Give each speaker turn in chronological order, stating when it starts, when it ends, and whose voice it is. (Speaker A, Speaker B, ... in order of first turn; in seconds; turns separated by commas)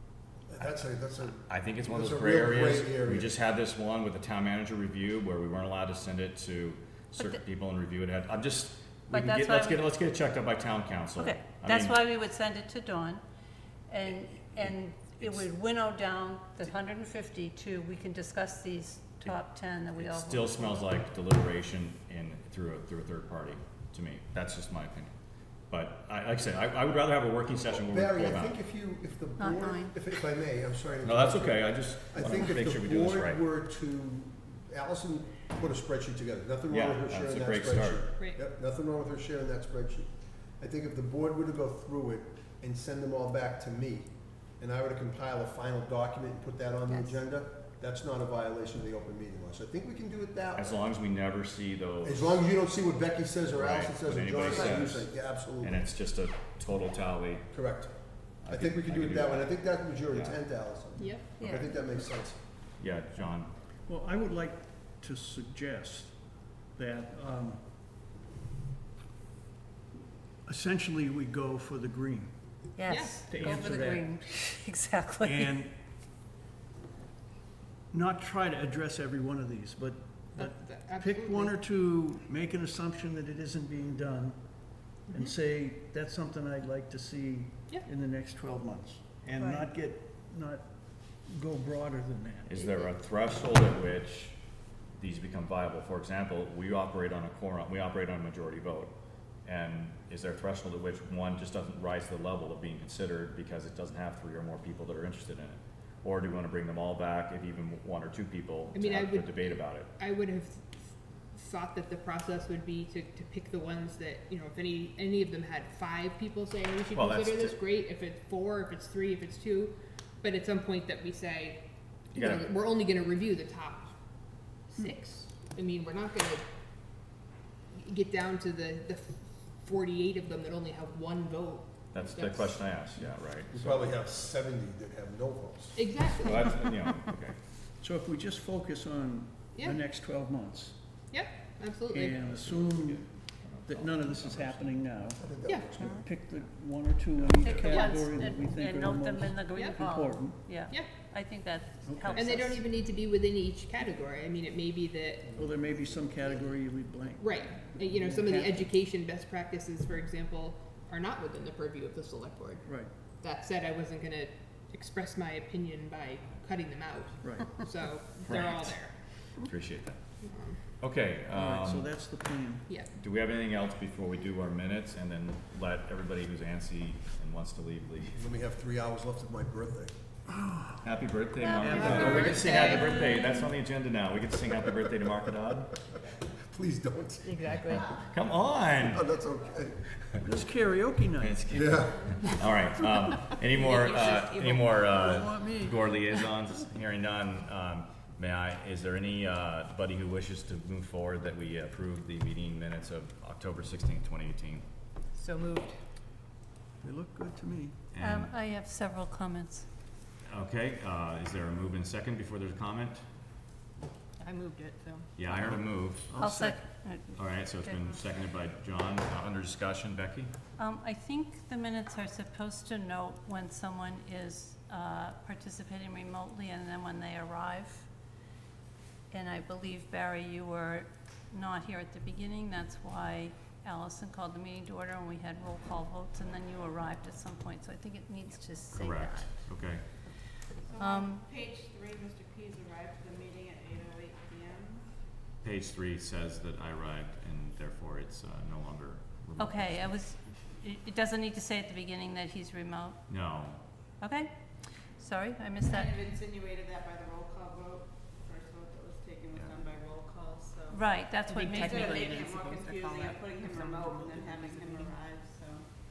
Speaker A: 0.5-3.3, Speaker B: 0.6-12.0, Speaker C: 9.1-9.8, Speaker C: 11.2-13.2, Speaker C: 13.9-20.9, Speaker B: 19.9-25.1, Speaker B: 25.7-28.6, Speaker A: 27.7-50.8, Speaker C: 29.4-29.9, Speaker B: 31.0-33.4, Speaker B: 36.7-38.2, Speaker B: 50.5-52.4, Speaker A: 52.0-55.9, Speaker B: 53.5-57.5, Speaker A: 57.5-57.9, Speaker A: 58.4-62.4, Speaker B: 58.4-60.4, Speaker D: 61.0-61.3, Speaker C: 61.4-61.7, Speaker B: 62.8-63.5, Speaker E: 63.9-67.7, Speaker E: 70.4-72.7, Speaker C: 72.8-75.5, Speaker D: 72.9-73.5, Speaker E: 73.3-74.1, Speaker E: 75.2-75.7, Speaker E: 77.9-92.7, Speaker D: 80.3-81.5, Speaker D: 85.0-85.3, Speaker B: 92.5-94.4, Speaker B: 94.9-98.9, Speaker B: 99.4-109.9, Speaker D: 108.7-126.4, Speaker B: 116.9-117.6, Speaker B: 122.1-122.5, Speaker D: 127.7-132.8, Speaker B: 131.9-133.9, Speaker A: 133.5-135.8, Speaker D: 135.8-136.8, Speaker B: 136.0-137.4, Speaker E: 137.8-141.0, Speaker D: 139.5-139.8, Speaker D: 141.1-142.2, Speaker E: 141.8-150.7, Speaker B: 142.2-144.8, Speaker A: 145.2-146.1, Speaker D: 145.4-145.8, Speaker B: 147.2-147.7, Speaker C: 147.4-152.6, Speaker D: 147.7-147.9, Speaker D: 149.5-149.8, Speaker E: 151.8-152.4, Speaker D: 152.1-155.4, Speaker E: 155.3-158.7, Speaker D: 157.2-169.3, Speaker E: 162.6-162.9, Speaker E: 167.2-167.9, Speaker B: 168.2-170.0, Speaker D: 170.2-170.6, Speaker B: 170.8-171.9, Speaker E: 171.3-172.7, Speaker B: 172.9-178.2, Speaker A: 178.1-179.9, Speaker E: 180.3-180.8, Speaker B: 180.8-185.8, Speaker E: 181.6-182.6, Speaker D: 181.6-183.0, Speaker C: 181.7-183.4, Speaker A: 186.4-187.8, Speaker B: 187.7-189.2, Speaker A: 188.8-189.9, Speaker E: 190.2-191.5, Speaker B: 191.2-204.6, Speaker A: 191.5-192.4, Speaker D: 194.1-194.6, Speaker E: 195.0-196.1, Speaker D: 205.2-205.7, Speaker E: 206.8-207.8, Speaker B: 207.9-208.3, Speaker C: 208.0-209.7, Speaker B: 210.2-213.0, Speaker B: 215.2-216.1, Speaker E: 215.3-216.7, Speaker C: 216.2-218.0, Speaker B: 217.1-220.3, Speaker C: 220.6-227.9, Speaker C: 229.1-239.4, Speaker B: 238.8-239.8, Speaker C: 240.3-241.3, Speaker F: 240.8-244.9, Speaker B: 245.4-249.9, Speaker C: 249.4-253.0, Speaker B: 253.1-253.6, Speaker C: 254.0-256.0, Speaker F: 255.8-260.8, Speaker C: 260.7-262.2, Speaker F: 261.4-265.6, Speaker D: 262.1-263.2